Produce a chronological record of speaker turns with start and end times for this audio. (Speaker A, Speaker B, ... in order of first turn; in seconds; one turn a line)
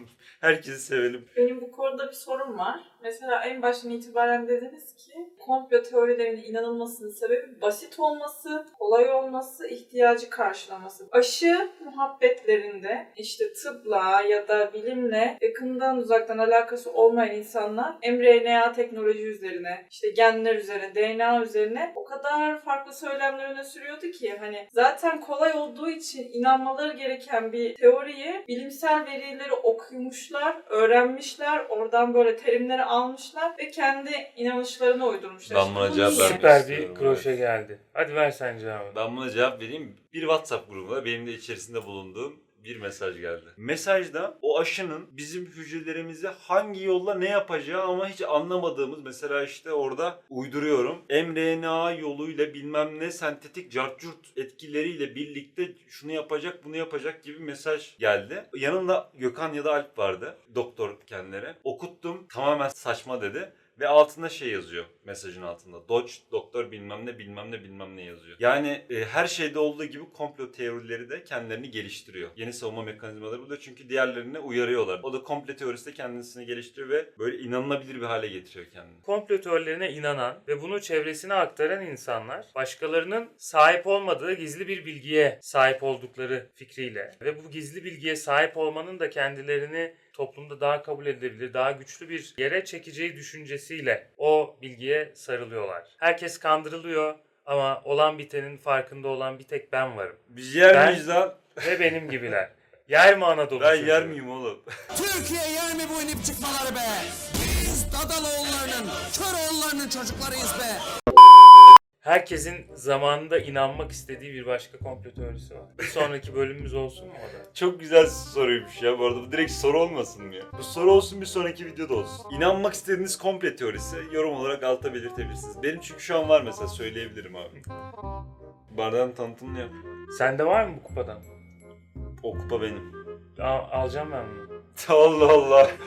Speaker A: 0.4-1.3
Speaker B: 1.3-36.4
Speaker A: 35.5-37.4
Speaker C: 35.9-39.0
Speaker A: 38.9-79.0
Speaker C: 79.0-104.2
Speaker A: 100.3-102.1
Speaker A: 103.6-104.7
Speaker D: 104.9-110.8
Speaker C: 112.0-117.5
Speaker A: 117.5-127.5
Speaker A: 128.7-129.7
Speaker C: 130.1-131.2
Speaker A: 132.2-132.9
Speaker C: 133.4-134.5
Speaker A: 134.8-135.7